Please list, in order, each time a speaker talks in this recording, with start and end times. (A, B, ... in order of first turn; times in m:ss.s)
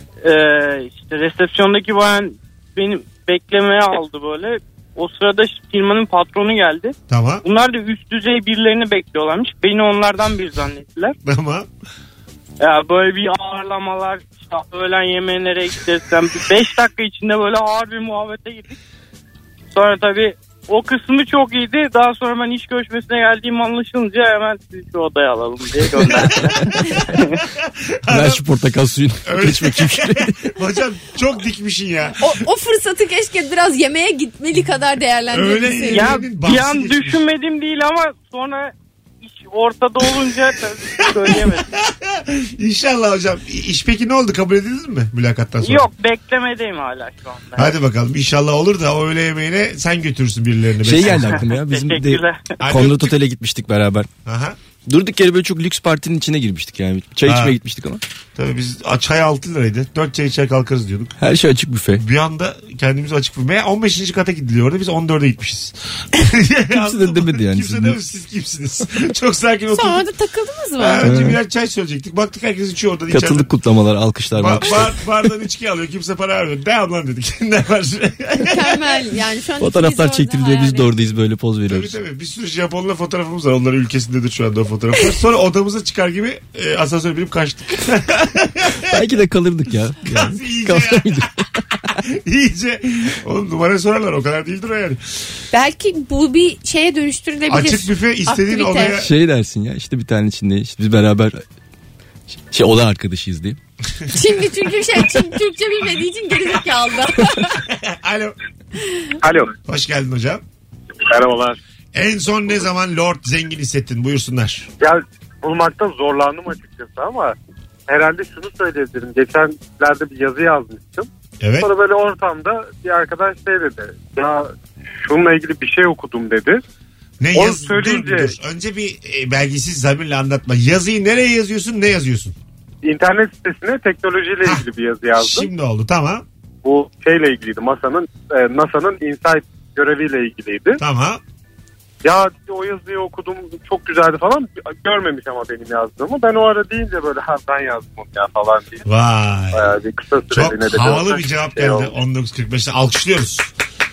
0:00.2-0:11.1 A
0:07.1-0:07.4 B
0:11.2-0:11.7 B
0:12.6-0:18.7 A
0:19.7-0:26.6 A
0:26.1-0:26.6 C
0:27.6-0:28.4 B
0:28.1-0:30.3 C
0:29.2-0:32.3 B
0:32.2-0:36.1 D
0:35.3-0:37.2 B
0:35.9-0:41.7 A
0:41.1-0:45.9 B
0:45.6-0:47.7 A
0:47.6-0:51.4 B
0:50.8-0:54.1 C
0:51.4-0:52.6 A
0:52.6-0:53.1 B
0:54.2-0:54.6 B
0:54.8-0:58.0 C
0:57.2-0:57.6 B
0:58.3-1:01.1 B
1:01.2-1:02.0 C
1:02.0-1:10.0 B
1:06.7-1:08.0 C
1:09.7-1:11.2 D
1:10.8-1:13.5 B
1:11.0-1:11.4 C
1:13.1-1:14.9 C
1:14.4-1:19.0 B
1:18.4-1:20.9 D
1:19.6-1:22.0 C
1:21.7-1:29.0 B
1:28.9-1:31.3 C
1:30.1-1:31.2 B
1:32.0-1:35.0 B
1:35.5-1:39.0 D
1:37.5-1:39.1 B
1:39.0-1:41.4 C
1:42.3-1:43.6 C
1:44.1-1:47.6 D
1:47.7-1:48.4 B
1:49.2-1:49.5 E
1:49.6-1:50.4 B
1:51.0-1:51.6 E
1:51.9-1:54.7 B
1:54.8-1:57.3 E
1:57.9-2:01.1 E
2:01.4-2:01.7 B
2:01.6-2:06.6 E
2:07.2-2:12.3 B
2:07.3-2:08.3 E
2:12.8-2:15.5 E
2:15.2-2:16.2 B
2:16.6-2:20.8 E
2:20.8-2:21.2 B
2:22.0-2:28.8 E
2:28.8-2:29.6 B
2:29.5-2:31.9 E
2:30.3-2:33.5 B